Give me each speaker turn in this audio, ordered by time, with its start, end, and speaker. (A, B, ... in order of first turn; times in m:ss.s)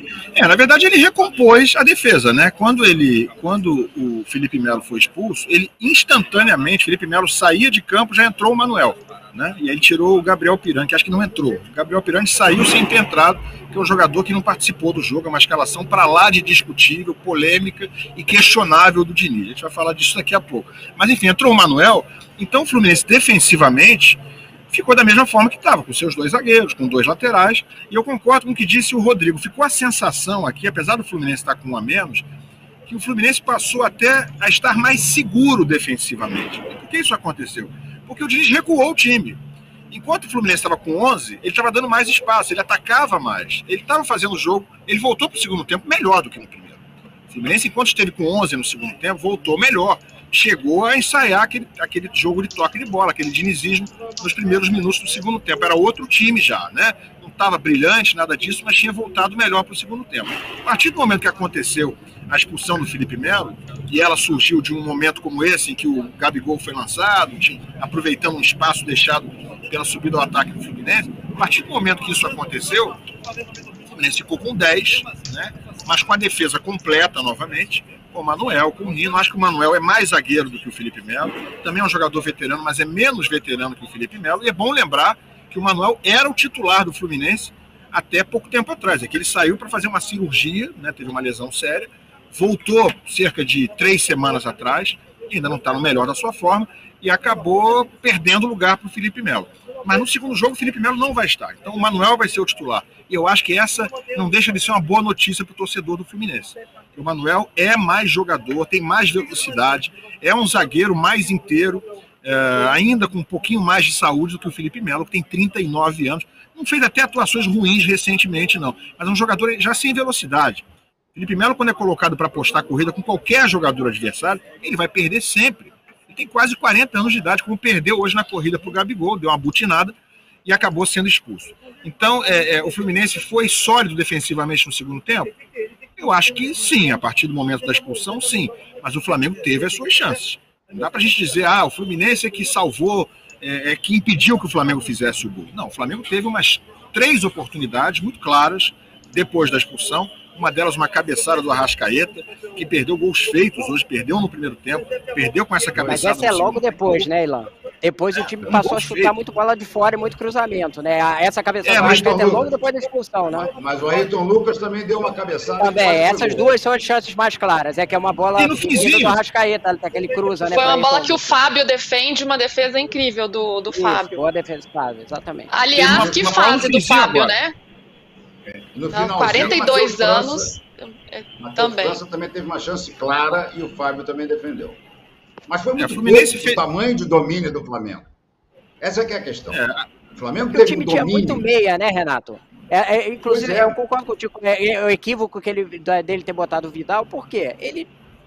0:00.3-0:24.2 A
0:24.7-0:32.3 A
0:32.9-0:39.4 A
0:39.9-1:13.0 A
1:13.9-2:15.3 A
2:16.0-2:37.1 A
2:35.8-2:43.5 B
2:38.4-2:39.2 A
2:41.6-2:42.3 A
2:41.8-2:42.5 C
2:43.4-2:46.5 C
2:45.6-2:51.3 B
2:48.4-2:49.2 A
2:50.5-2:54.2 D
2:53.7-2:55.5 B
2:55.5-2:57.6 D
2:55.8-2:56.8 C
2:55.8-2:57.4 A
2:58.5-3:00.5 C
2:58.9-3:02.0 D
3:01.4-3:04.8 C
3:05.5-3:08.1 C
3:05.8-3:06.6 A
3:08.8-3:09.6 C
3:09.5-3:09.8 A
3:10.1-3:11.4 C
3:10.5-3:17.9 B
3:13.2-3:13.8 C